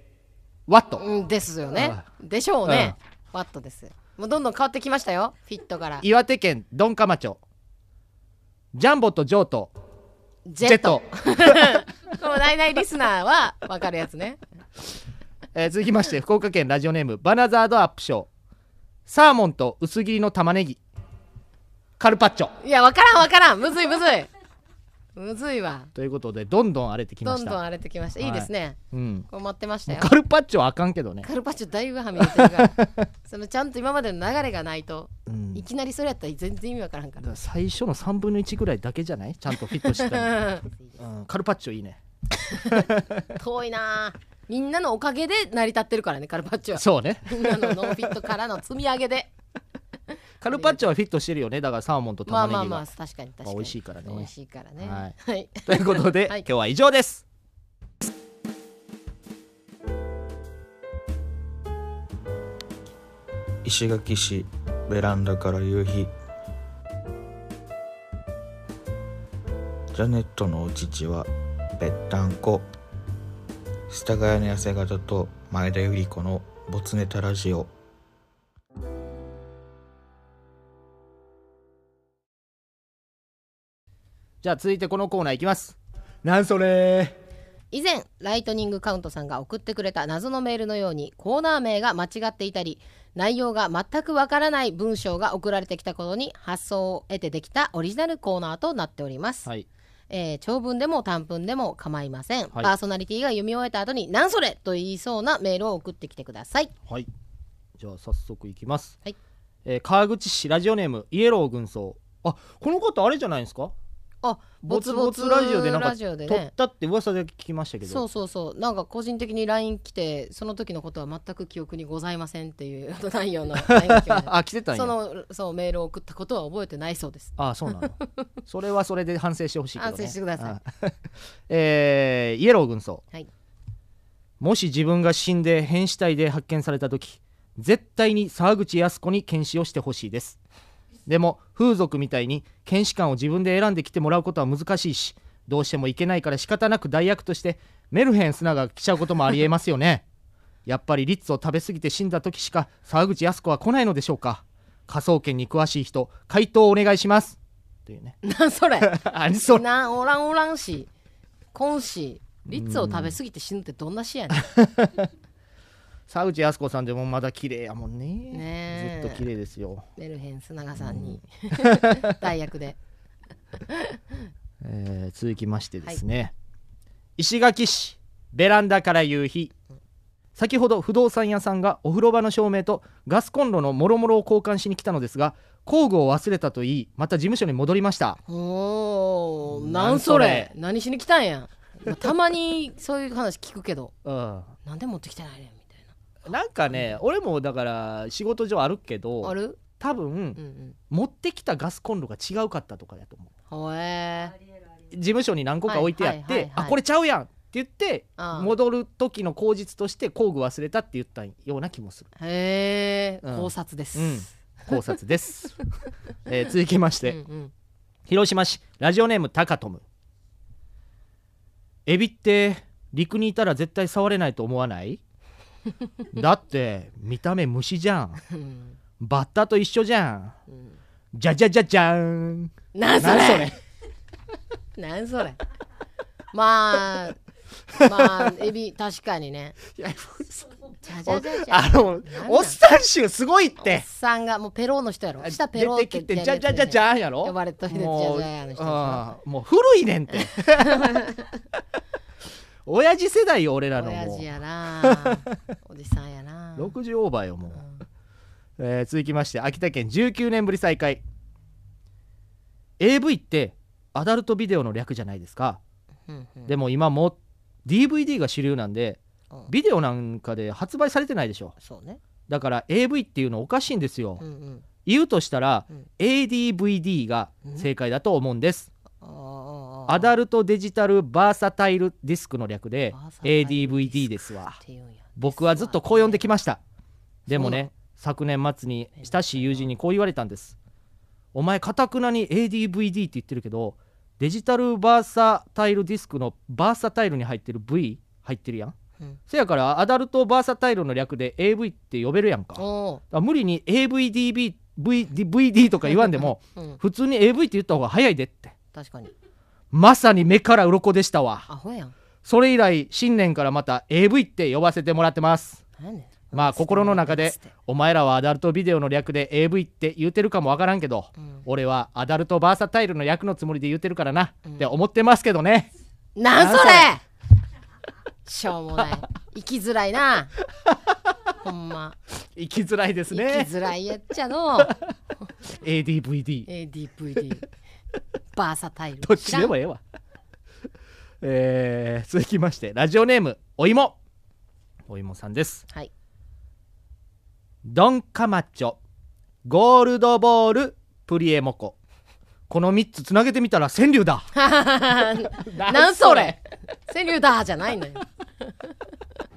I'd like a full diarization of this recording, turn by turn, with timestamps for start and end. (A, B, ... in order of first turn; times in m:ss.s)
0:00.7-0:01.0 A
0:01.0-0:06.0 B
0:01.7-0:02.0 A
0:02.6-0:03.0 A
0:06.0-0:07.4 A
0:08.7-0:09.7 A
0:10.4-0:14.4 B
0:10.6-0:11.8 A
0:15.5-0:18.3 A
0:19.0-0:20.8 A
0:22.0-0:22.5 A
0:22.6-0:24.3 B
0:25.1-0:25.9 B
0:25.9-0:27.6 A
0:27.2-0:30.1 B
0:28.2-0:29.3 A
0:29.9-0:31.3 A
0:31.2-0:37.4 B
0:32.2-0:33.0 A
0:35.3-0:35.6 A
0:37.2-0:42.0 A
0:39.7-0:41.0 B
0:42.6-0:43.2 A
0:42.6-0:49.3 B
0:46.7-0:48.2 A
0:50.4-0:52.8 A
0:50.5-0:50.8 B
0:52.3-0:56.4 B
0:53.4-0:57.2 A
1:03.6-1:06.1 C
1:09.9-1:12.7 C
1:13.9-1:17.7 C
1:24.4-1:27.2 A
1:27.7-1:39.5 B
1:40.1-1:46.7 B
1:47.8-1:49.0 A
1:49.6-1:53.7 A
1:54.2-1:56.5 B
1:54.6-1:58.0 A
1:57.8-2:08.0 B
2:03.6-2:04.9 A
2:07.4-2:13.0 A
2:09.8-2:10.6 B
2:14.4-2:20.4 A
2:21.1-2:30.0 A
2:30.6-2:38.2 A
2:38.2-2:40.9 B
2:38.8-2:39.6 A
2:41.5-2:44.5 B
2:42.5-2:43.1 A
2:44.3-2:45.1 A
2:46.1-2:49.9 A
2:48.3-2:49.2 B
2:50.0-2:52.8 B
2:50.8-2:52.0 A
2:53.7-2:54.0 B
2:54.6-2:56.3 A
2:57.2-2:59.5 A
3:00.4-3:08.2 A
3:08.3-3:13.9 B
3:09.5-3:10.5 A
3:14.0-3:14.5 A
3:14.6-3:15.9 B
3:16.3-3:23.3 A
3:16.7-3:17.0 B
3:19.2-3:19.6 B
3:20.4-3:20.8 B
3:23.5-3:24.3 B
3:24.9-3:32.1 A
3:25.6-3:26.8 B
3:28.2-3:28.5 B
3:32.2-3:34.7 B
3:33.2-3:35.6 A
3:36.3-3:37.2 A
3:37.0-3:37.5 B
3:38.1-3:39.8 A
3:41.8-3:45.0 A
3:46.1-3:48.2 A
3:48.3-3:48.8 B
3:49.0-3:50.4 A
3:50.5-3:50.8 B
3:51.1-3:53.6 A
3:52.7-3:53.5 B
3:54.8-3:55.4 B
3:56.3-3:57.2 B
3:57.7-3:59.6 B
3:57.8-3:58.2 A
3:59.7-4:03.8 A
4:00.8-4:02.6 B
4:03.6-4:09.0 B
4:05.2-4:11.1 A
4:10.6-4:11.3 B
4:12.6-4:15.3 A
4:13.8-4:16.7 B
4:16.6-4:17.6 A
4:17.5-4:17.8 B
4:18.6-4:21.0 A
4:22.8-4:25.6 A
4:26.1-4:26.5 B
4:26.4-4:31.5 A
4:31.6-4:32.0 B
4:32.3-4:34.2 A
4:34.2-4:34.6 B
4:34.8-4:38.7 A
4:39.0-4:40.1 B
4:39.9-4:44.6 A
4:42.9-4:46.3 B
4:45.2-4:46.6 A
4:47.3-4:50.6 A
4:47.3-4:47.6 B
4:49.0-4:49.6 B
4:51.3-4:58.7 A
4:59.3-5:08.5 A
5:02.6-5:03.0 B
5:05.9-5:06.8 B
5:08.7-5:09.1 B
5:09.7-5:11.5 A
5:11.5-5:11.9 B
5:12.2-5:15.6 A
5:15.8-5:17.5 B
5:16.3-5:25.7 A
5:21.2-5:21.4 B
5:24.4-5:24.7 B
5:26.2-5:27.0 B
5:26.3-5:26.9 A
5:28.2-5:30.3 B
5:31.4-5:32.0 B
5:32.3-5:33.5 A
5:33.1-5:34.7 B
5:35.4-5:36.5 A
5:36.5-5:37.4 B
5:38.3-5:39.5 B
5:39.0-5:39.8 A
5:41.2-5:44.0 A
5:44.9-5:45.7 A
5:47.6-5:48.8 A
5:49.4-5:51.8 A
5:52.5-5:54.3 A
5:54.3-5:58.6 B
5:55.4-5:56.4 A